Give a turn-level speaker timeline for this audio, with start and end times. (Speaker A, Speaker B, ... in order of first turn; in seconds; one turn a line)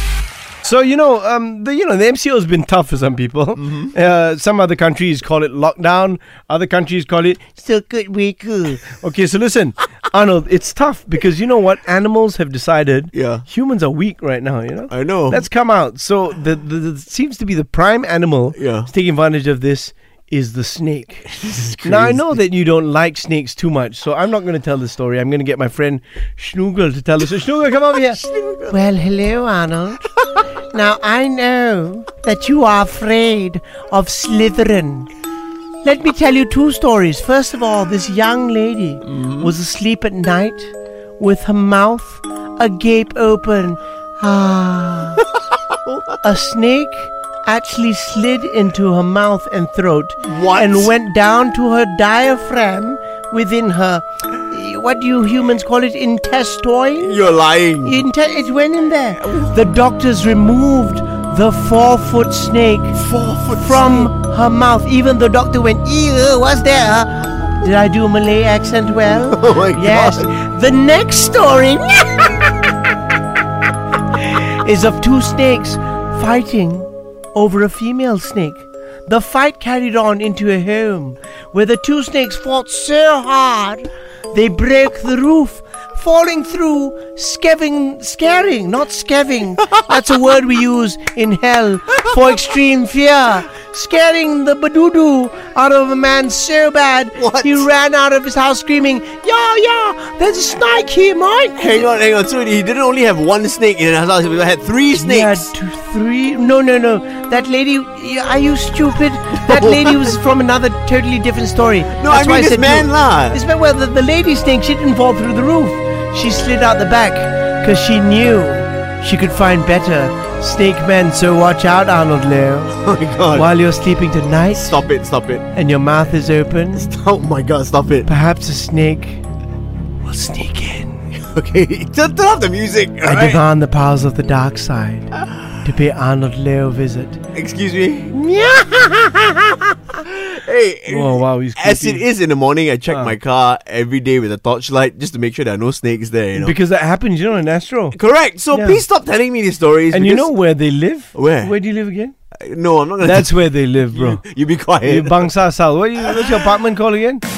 Speaker A: 0.6-21.3
Speaker B: 13.1-13.4
Speaker B: 14.9-15.4
Speaker B: 18.6-18.9
Speaker B: 21.3-22.3
Speaker A: 21.8-30.0
Speaker B: 28.2-28.7
Speaker A: 30.7-35.1
Speaker A: 35.8-45.2
Speaker B: 39.2-39.5
Speaker A: 46.2-57.2
Speaker B: 50.2-50.9
Speaker B: 57.0-58.0
Speaker A: 57.8-63.0
Speaker B: 62.9-64.1
Speaker A: 63.5-72.5
Speaker B: 69.1-70.3
Speaker A: 74.3-101.9
Speaker B: 97.2-97.7
Speaker B: 101.6-105.5
Speaker A: 104.9-124.8
Speaker B: 109.3-110.1
Speaker B: 111.9-113.4
Speaker B: 122.8-123.5
Speaker B: 124.5-125.5
Speaker A: 125.5-126.9
Speaker B: 126.8-128.1
Speaker A: 128.1-129.2
Speaker A: 130.0-131.0
Speaker B: 131.2-133.4
Speaker A: 133.0-135.1
Speaker A: 135.6-137.2
Speaker B: 137.3-138.2
Speaker A: 138.1-139.6
Speaker B: 140.0-146.6
Speaker A: 140.9-142.1
Speaker A: 142.9-143.2
Speaker A: 146.3-148.0
Speaker B: 147.9-150.3
Speaker A: 148.5-148.8
Speaker A: 149.9-152.2
Speaker B: 151.1-151.6
Speaker B: 152.4-153.3
Speaker A: 153.0-154.2
Speaker B: 153.9-155.3
Speaker A: 154.8-157.2